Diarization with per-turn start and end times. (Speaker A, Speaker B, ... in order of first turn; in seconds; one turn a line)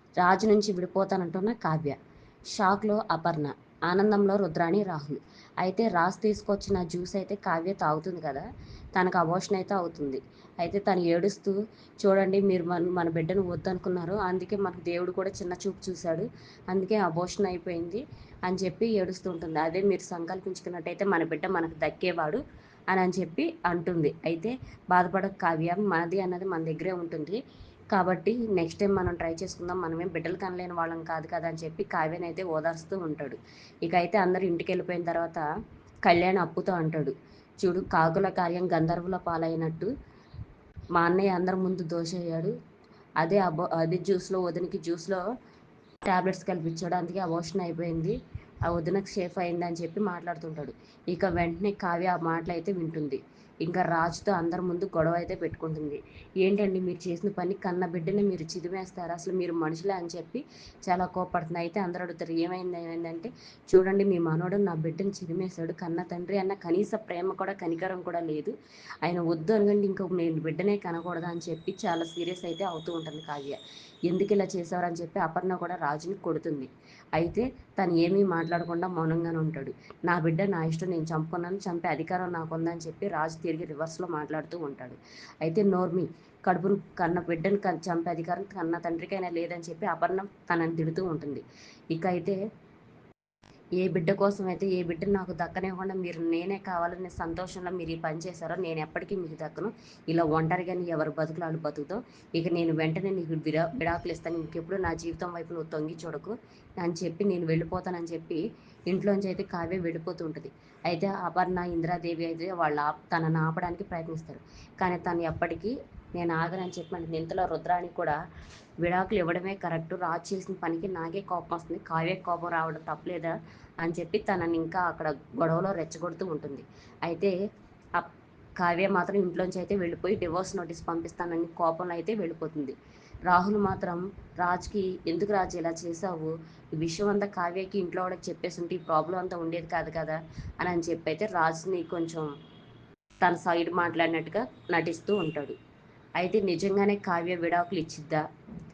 Speaker A: 0.2-2.0
Speaker A: 2.5-22.4
Speaker A: 22.9-27.4
Speaker A: 27.9-35.4
Speaker A: 36.0-39.9
Speaker A: 40.9-42.5
Speaker A: 43.2-45.2
Speaker A: 46.0-48.1
Speaker A: 48.7-92.4
Speaker A: 93.8-118.2
Speaker A: 118.8-127.3
Speaker A: 128.0-132.8
Speaker A: 133.3-142.3
Speaker A: 143.2-145.6
Speaker A: 146.2-148.2